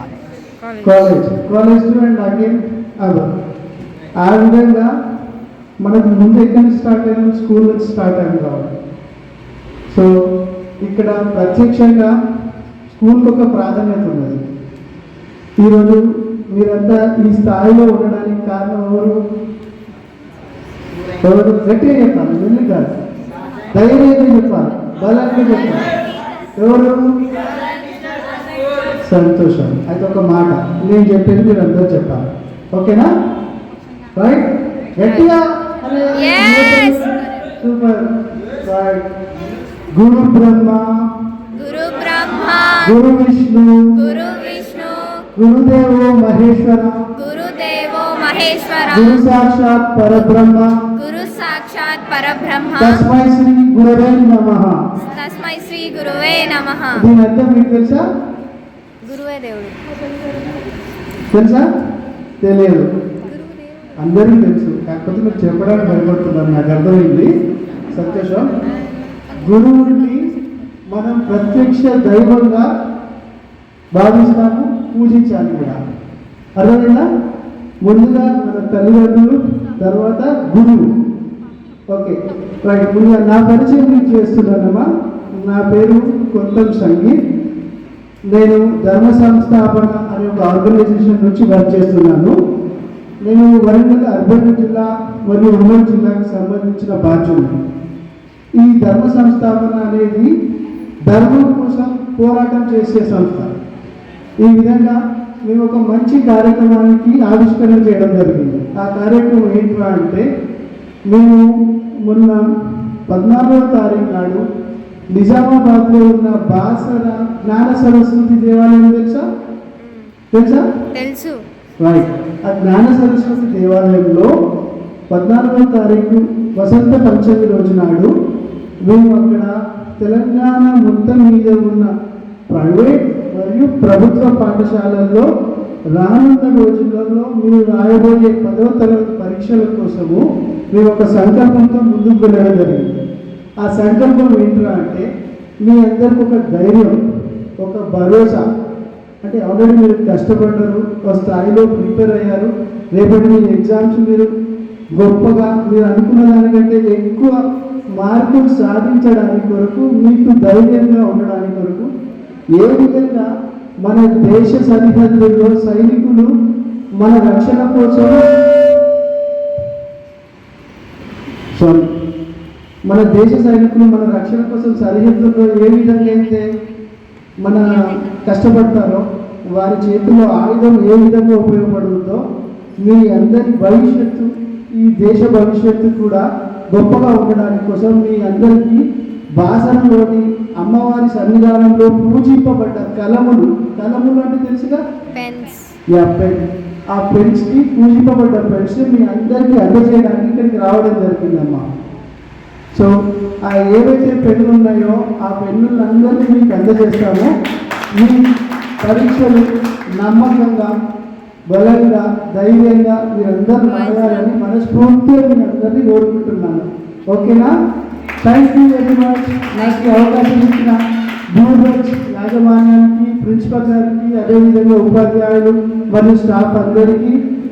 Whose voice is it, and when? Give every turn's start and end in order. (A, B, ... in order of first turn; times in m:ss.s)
0:00.8-0:03.3 A
0:04.2-0:04.9 A
0:05.8-0:08.7 A
0:10.8-0:12.1 A
0:12.9-0:14.4 A
0:15.6-0:19.2 A
0:21.2-0:22.9 A
0:23.7-0:25.8 A
0:26.6-0:27.0 A
0:29.0-0:33.1 A
0:34.2-0:37.1 A
0:37.6-0:38.1 A
0:38.6-0:39.1 A
0:39.9-0:40.9 A
0:41.5-0:42.8 B
0:42.8-0:43.9 A
0:44.0-0:45.2 B
0:45.4-0:47.1 A
0:47.2-0:49.0 B
0:48.9-0:50.7 A
0:51.0-0:52.8 B
0:52.8-0:54.8 A
0:55.0-0:56.9 B
0:56.9-0:58.0 A
0:59.0-0:59.8 B
1:01.3-1:01.6 A
1:02.4-1:02.9 A
1:04.0-1:07.3 A
1:07.9-1:08.5 A
1:09.4-1:10.3 A
1:10.9-1:12.7 A
1:14.0-1:15.8 A
1:16.6-1:17.0 A
1:17.8-1:20.9 A
1:21.9-1:24.8 A
1:25.4-1:27.2 A
1:28.3-1:32.4 A
1:33.2-1:37.6 A
1:38.6-1:40.3 A
1:41.1-1:43.5 A
1:44.4-1:45.0 A
1:45.5-1:50.2 A
1:51.1-1:51.4 A
1:52.0-1:52.4 A
1:53.1-1:54.4 A
1:55.1-1:59.2 A
2:00.3-2:00.7 A
2:01.0-2:01.4 B
2:01.8-2:04.3 A
2:05.1-2:08.1 A
2:08.9-2:11.9 A
2:12.5-2:15.2 A
2:16.0-2:20.2 A
2:20.7-2:23.0 A
2:23.6-2:25.0 A
2:25.6-2:27.0 A
2:27.6-2:28.4 A
2:29.2-2:34.3 A
2:35.0-2:37.4 A
2:38.0-2:41.9 A
2:42.6-2:43.3 A
2:43.8-2:46.3 A
2:47.0-2:48.2 A
2:51.6-2:51.8 A
2:52.9-2:56.5 A
2:57.4-2:59.0 A
2:59.6-3:02.2 A
3:02.8-3:08.8 A
3:09.4-3:14.8 A
3:15.2-3:15.7 B
3:15.9-3:21.7 A
3:23.5-3:27.3 A
3:28.8-3:29.4 A
3:30.0-3:30.7 A
3:31.5-3:37.5 A
3:38.2-3:40.8 A
3:41.3-3:47.2 A